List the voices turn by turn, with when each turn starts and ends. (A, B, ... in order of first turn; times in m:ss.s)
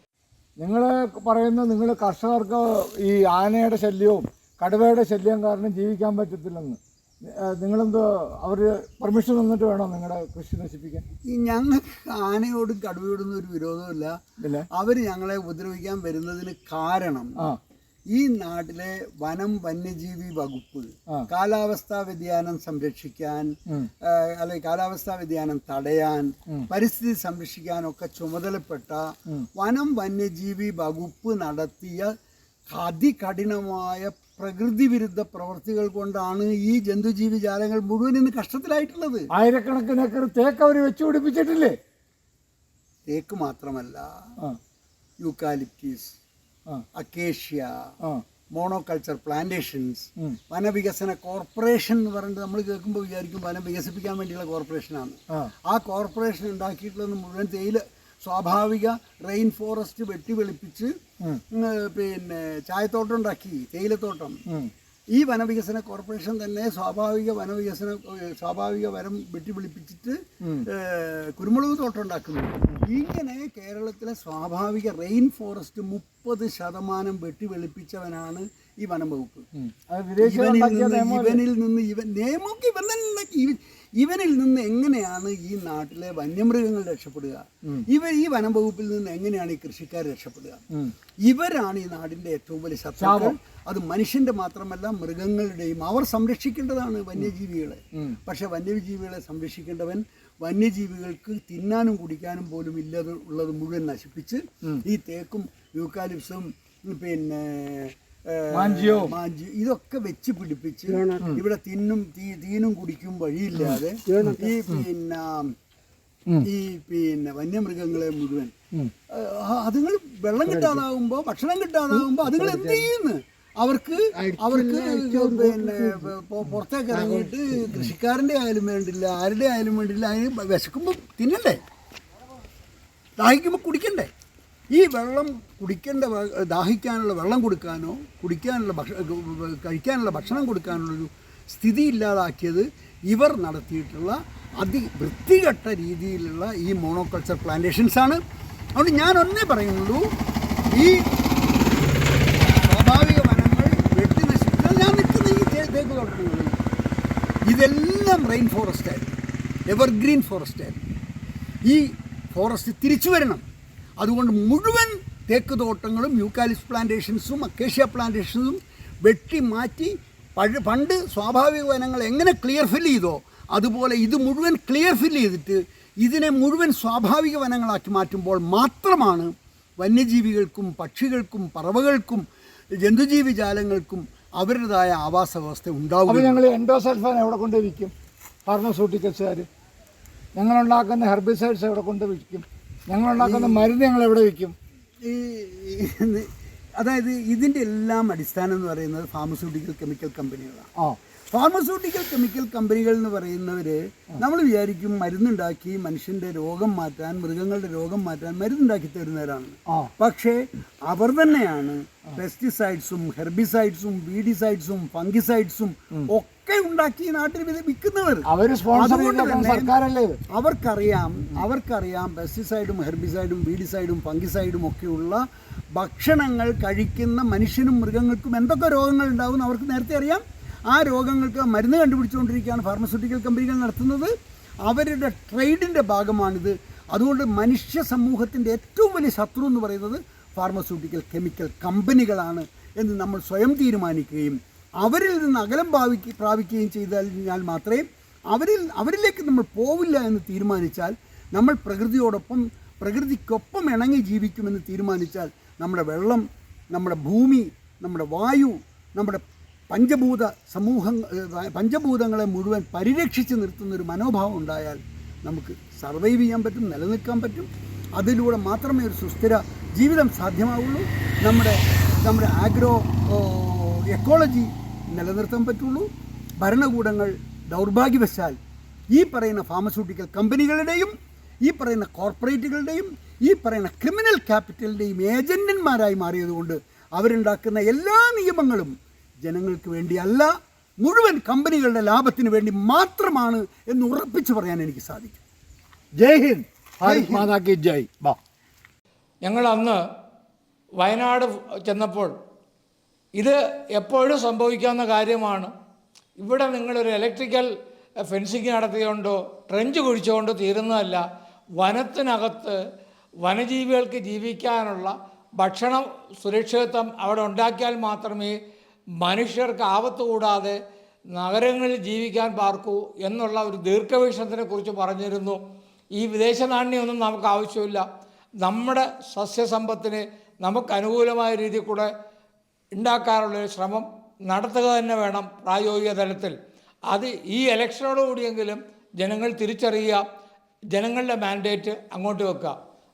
0:00.6-0:06.7 A
0:01.7-0:02.5 B
0:05.2-0:06.6 B
0:07.4-0:09.0 A
0:07.7-0:10.8 B
0:09.7-0:11.0 A
0:11.3-0:14.2 C
0:14.7-0:17.4 C
0:18.1-0:32.1 C
0:32.7-0:39.3 C
0:39.4-0:39.7 A
0:39.6-0:41.6 B
0:40.9-0:41.7 A
0:43.1-0:44.1 C
0:45.2-0:46.1 C
0:46.9-0:47.8 C
0:48.5-1:00.9 C
1:01.5-1:04.4 C
1:05.1-1:19.4 C
1:19.6-1:21.4 A
1:20.2-1:30.6 C
1:31.2-1:55.5 C
1:33.0-1:33.3 A
1:48.5-1:49.1 A
1:53.7-1:54.4 A
1:56.4-1:58.5 C
1:59.1-2:11.6 C
2:00.5-2:00.8 A
2:02.0-2:02.8 A
2:04.2-2:05.9 A
2:07.0-2:07.9 A
2:13.2-2:14.1 C
2:14.7-2:28.2 C
2:28.8-2:30.1 C
2:30.7-2:31.1 C
2:32.5-2:36.6 C
2:37.5-2:39.1 C
2:39.7-2:40.8 C
2:41.7-2:43.4 C
2:44.0-3:02.2 C
3:02.8-3:06.4 C
3:06.1-3:07.9 A
3:08.4-3:09.4 A
3:10.4-3:14.5 A
3:13.2-3:13.7 C
3:15.0-3:20.7 C
3:21.3-3:39.7 C
3:38.3-3:40.2 A
3:40.3-3:45.2 C
3:45.7-3:54.1 C
3:54.6-4:35.9 C
4:36.4-4:38.4 C
4:38.9-4:55.2 C
4:56.0-4:58.2 A
4:56.8-4:57.3 C
4:59.2-4:59.8 B
5:00.8-5:02.1 B
5:03.2-5:05.5 B
5:06.2-5:07.5 B
5:08.0-5:11.0 B
5:11.6-5:12.6 B
5:13.2-5:18.3 B
5:19.0-5:20.6 B
5:21.1-5:25.4 B
5:26.0-5:27.8 B
5:28.4-5:31.9 B
5:32.7-5:36.3 B
5:36.9-5:40.0 B
5:40.7-5:42.6 B